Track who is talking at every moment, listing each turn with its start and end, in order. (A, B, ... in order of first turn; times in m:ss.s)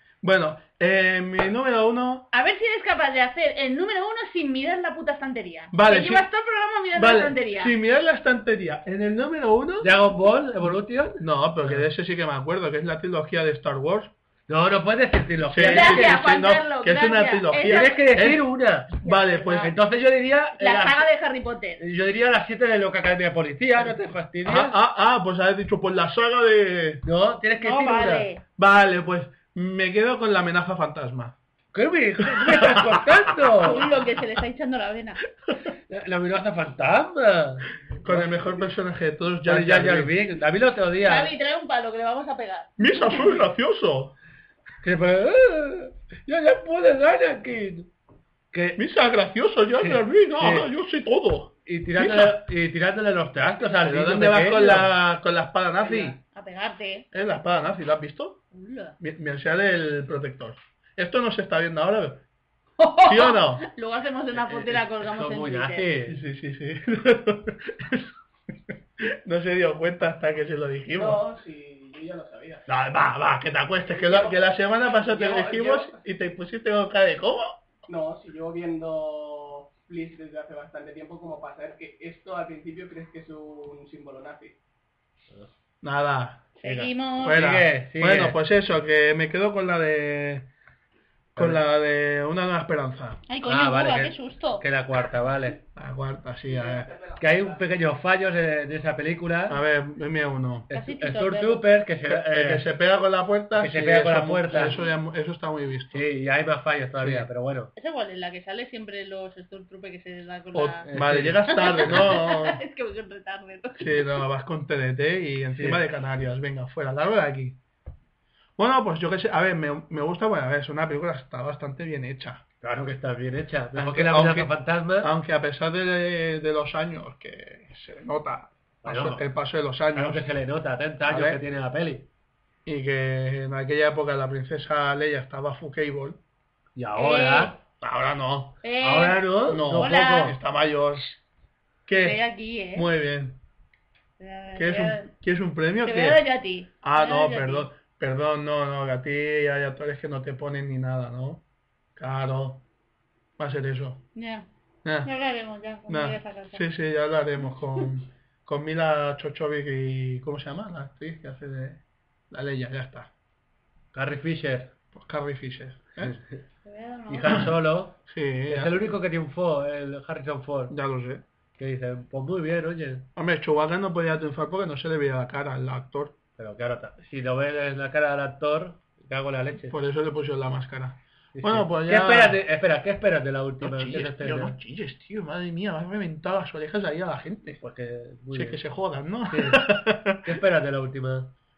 0:00.2-0:02.3 A
0:02.3-0:07.8 B
0:05.7-0:06.3 A
0:06.9-0:09.9 A
0:09.8-0:11.9 C
0:11.2-0:14.1 A
0:14.5-0:16.3 C
0:15.5-0:19.7 A
0:15.6-0:18.1 B
0:17.6-0:19.0 C
0:19.0-0:19.7 B
0:19.6-0:21.1 C
0:20.6-0:21.8 B
0:21.8-0:24.8 C
0:24.4-0:27.0 A
0:27.0-0:28.3 C
0:27.6-0:28.4 B
0:28.6-0:31.4 A
0:31.7-0:33.9 C
0:32.2-0:33.5 A
0:33.6-0:35.2 B
0:35.9-0:38.6 C
0:38.0-0:40.1 A
0:39.5-0:41.3 C
0:41.0-0:43.2 B
0:42.8-0:44.2 A
0:44.8-0:47.9 C
0:48.5-0:48.8 C
0:48.8-0:52.4 A
0:49.8-0:50.7 C
0:51.7-0:54.9 C
0:53.8-0:56.2 A
0:56.2-0:57.1 B
0:57.1-0:58.4 A
0:58.5-0:59.0 B
0:59.0-1:02.2 A
1:02.8-1:05.9 B
1:03.0-1:03.7 A
1:04.4-1:06.2 C
1:06.1-1:08.2 A
1:08.7-1:11.2 A
1:10.9-1:12.6 D
1:12.7-1:17.6 A
1:14.0-1:16.0 D
1:17.9-1:24.6 D
1:25.8-1:26.6 A
1:26.6-1:27.4 B
1:26.6-1:28.4 C
1:27.2-1:30.5 A
1:31.4-1:31.6 C
1:31.4-1:33.2 A
1:33.3-1:34.6 B
1:33.5-1:35.6 C
1:35.8-1:36.9 A
1:37.2-1:39.6 C
1:39.5-1:40.7 A
1:40.7-1:42.7 C
1:40.7-1:41.8 B
1:42.0-1:46.0 A
1:43.6-1:44.8 C
1:45.9-1:47.7 C
1:47.0-1:47.3 A
1:47.8-1:50.9 B
1:50.5-1:52.6 A
1:50.9-1:51.4 C
1:51.5-1:54.2 B
1:53.8-1:57.6 A
1:55.6-1:55.8 C
1:58.6-2:02.4 A
2:02.6-2:05.1 C
2:03.8-2:10.3 A
2:08.8-2:09.3 C
2:09.9-2:12.1 C
2:11.0-2:11.4 A
2:12.7-2:16.2 A
2:16.8-2:17.6 C
2:17.0-2:17.5 B
2:17.8-2:18.6 A
2:18.6-2:20.4 B
2:18.8-2:20.1 C
2:19.5-2:21.1 A
2:21.9-2:22.2 A
2:22.0-2:22.9 B
2:22.7-2:23.4 A
2:24.2-2:25.1 B
2:24.6-2:26.2 A
2:25.8-2:27.7 B
2:26.8-2:31.4 A
2:32.0-2:32.6 A
2:33.4-2:34.0 A
2:34.2-2:34.5 B
2:34.8-2:35.1 A
2:35.0-2:36.6 B
2:35.9-2:43.1 A
2:43.9-2:44.7 C
2:44.9-2:46.2 A
2:46.0-2:46.4 C
2:46.6-2:47.5 B
2:47.1-2:50.8 C
2:48.1-2:48.8 A
2:50.7-2:51.2 A
2:51.6-2:53.1 C
2:53.2-2:56.2 A
2:56.4-2:59.8 C
2:59.7-3:02.4 A
3:01.4-3:04.6 C
3:03.6-3:07.6 A
3:07.6-3:08.6 C
3:08.3-3:10.3 A
3:09.3-3:11.3 C